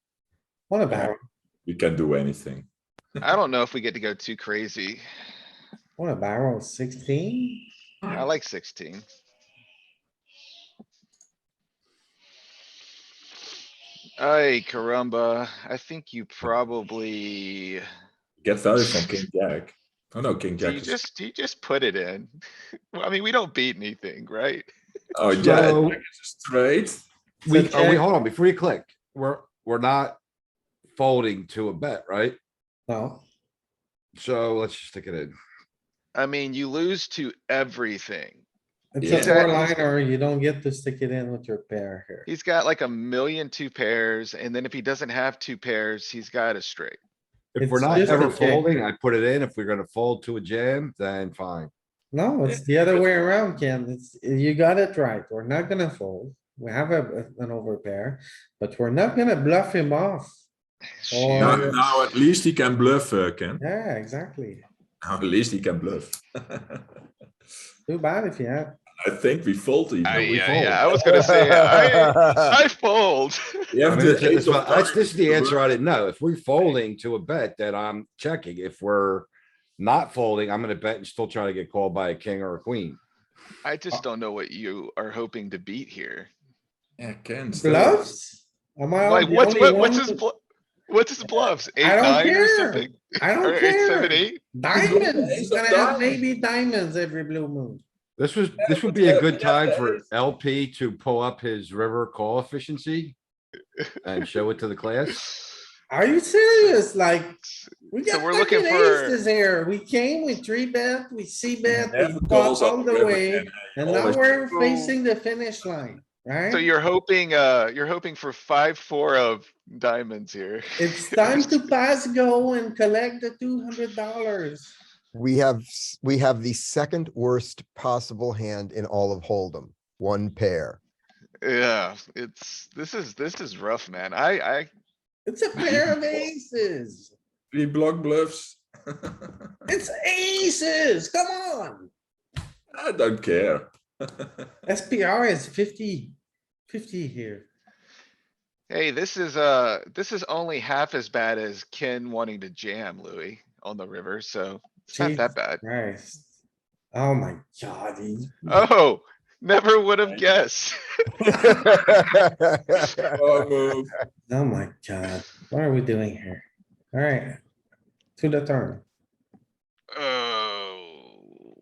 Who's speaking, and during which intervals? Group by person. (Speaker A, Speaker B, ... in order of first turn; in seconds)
Speaker A: 0.7-1.2, 6.0-7.7, 27.4-28.0, 32.9-33.2, 38.9-42.3, 47.6-48.7, 52.1-60.4, 61.1-61.8, 63.6-64.6, 67.9-68.7, 87.5-90.2, 91.8-97.8, 105.9-107.4, 107.9-116.7, 120.8-124.7, 135.2-137.1, 139.7-141.9, 144.7-146.1, 146.7-147.5, 154.9-156.3, 156.9-158.5, 164.3-167.4, 168.2-168.8
Speaker B: 1.6-2.7, 18.4-21.0, 25.1-27.1, 39.0-39.4, 48.0-48.4, 52.5-53.0, 61.3-63.6, 65.0-66.8, 69.0-70.9, 73.7-75.6, 87.0-88.1, 94.7-96.2, 98.6-100.0, 111.7-114.8, 135.6-136.2, 137.5-139.5, 142.7-144.5, 163.1-163.9
Speaker C: 3.2-5.0, 8.1-9.1, 14.2-17.8, 20.6-22.3, 22.9-24.7, 36.1-38.4, 39.1-39.8, 42.2-47.0, 47.9-48.6, 61.0-62.0, 70.0-73.6, 83.6-86.3, 89.0-94.4, 107.9-109.2, 116.5-121.5, 131.4-134.7, 148.7-155.6, 158.5-160.8, 169.9-171.3
Speaker D: 25.3-26.0, 27.4-30.2, 30.9-32.4, 34.1-35.3, 47.5-51.7, 73.9-83.0, 98.2-103.2, 104.0-105.2
Speaker E: 71.1-72.3, 125.1-130.8, 161.2-163.1